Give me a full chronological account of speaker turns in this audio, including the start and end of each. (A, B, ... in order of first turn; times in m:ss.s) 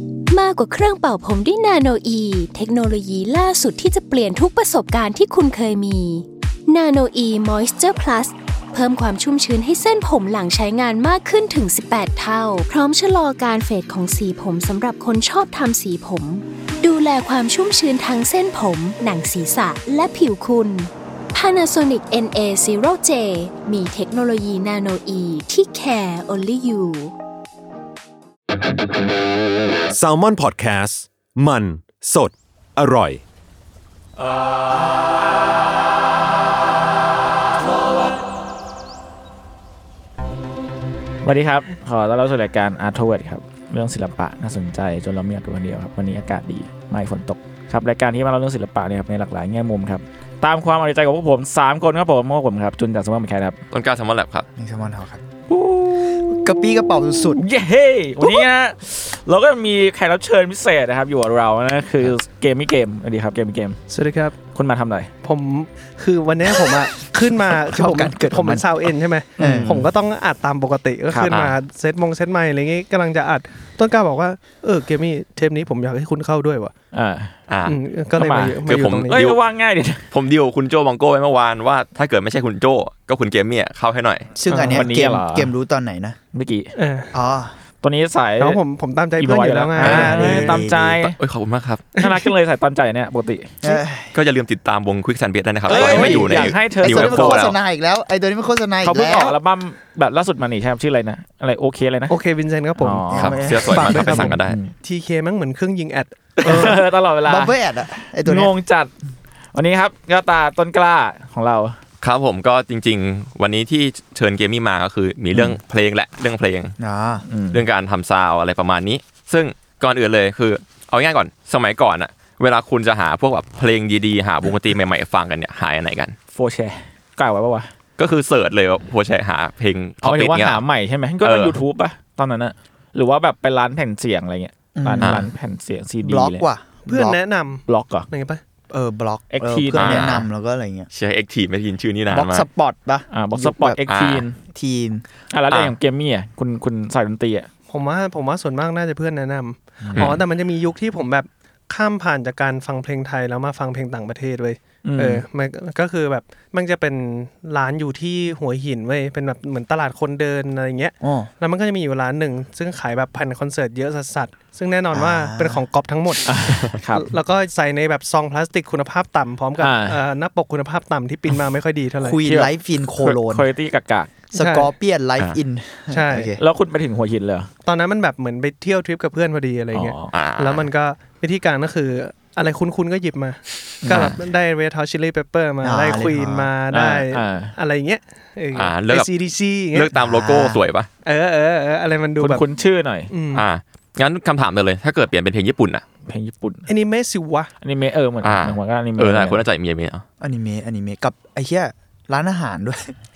0:00.3-0:27.1 A
0:29.9-0:33.2 B
0:41.2-0:53.6 C
0:53.7-0:54.4 D
0:54.6-0:55.2 E
0:55.5-0:56.4 C
0:56.2-0:57.4 E
0:57.3-1:03.8 C
1:03.9-1:04.4 F
1:04.5-1:05.1 C
1:05.2-1:16.7 F
1:07.5-1:09.9 E
1:09.4-1:09.9 C
1:11.3-1:11.6 D
1:16.9-1:17.4 C
1:17.5-1:17.8 D
1:17.6-1:19.2 F
1:18.1-1:20.1 C
1:18.6-1:19.4 D
1:20.1-1:24.3 D
1:24.3-1:26.2 E
1:24.5-1:24.9 F
1:24.6-1:25.5 C
1:26.3-1:26.7 C
1:26.7-1:27.1 F
1:27.1-1:27.6 E
1:27.8-1:28.6 C
1:28.4-1:30.6 F
1:29.2-1:31.2 C
1:29.8-1:30.9 E
1:30.8-1:31.8 D
1:32.0-1:32.3 F
1:32.0-1:33.6 C
1:33.6-1:34.1 E
1:34.1-1:37.6 D
1:35.7-1:37.5 C
1:35.8-1:36.2 F
1:35.8-1:39.4 E
1:38.8-1:42.2 C
1:42.1-1:43.1 F
1:42.8-1:44.7 C
1:43.1-1:44.4 E
1:43.1-1:44.6 D
1:43.8-1:46.8 F
1:46.4-1:47.6 C
1:46.4-1:48.5 E
1:48.2-1:48.9 C
1:49.5-1:51.8 C
1:52.0-1:56.7 D
1:56.8-1:57.2 E
1:57.3-1:57.6 C
1:57.5-2:06.2 D
2:06.3-2:07.7 C
2:08.0-2:10.6 D
2:10.0-2:16.4 C
2:11.2-2:11.6 D
2:14.7-2:15.3 E
2:15.0-2:15.3 D
2:16.0-2:17.2 E
2:16.9-2:18.4 F
2:17.7-2:18.1 C
2:18.7-2:20.9 E
2:19.3-2:20.1 C
2:19.7-2:20.2 D
2:20.9-2:22.5 D
2:22.1-2:23.8 E
2:23.1-2:24.4 C
2:23.9-2:24.2 D
2:24.5-2:25.0 E
2:25.3-2:27.5 C
2:25.5-2:25.7 D
2:27.7-2:52.2 F
2:29.8-2:30.2 E
2:30.0-2:30.2 D
2:34.8-2:35.2 C
2:41.0-2:41.3 E
2:44.9-2:45.6 E
2:46.2-2:47.1 C
2:49.6-2:50.0 C
2:52.0-2:53.5 E
2:52.2-2:54.1 C
2:54.3-2:56.4 E
2:54.3-2:54.7 F
2:55.9-2:56.4 F
2:56.4-2:57.5 C
2:57.6-3:09.9 F
2:59.7-3:00.1 C
3:00.1-3:00.7 D
3:03.8-3:04.2 C
3:05.6-3:06.5 E
3:06.7-3:07.5 C
3:08.5-3:09.1 D
3:09.7-3:10.9 D
3:09.9-3:10.6 E
3:11.0-3:12.4 F
3:12.2-3:13.1 C
3:13.1-3:13.4 F
3:13.3-3:15.8 D
3:16.0-3:16.7 C
3:16.7-3:17.5 F
3:17.6-3:19.4 C
3:18.2-3:20.0 D
3:20.2-3:23.0 E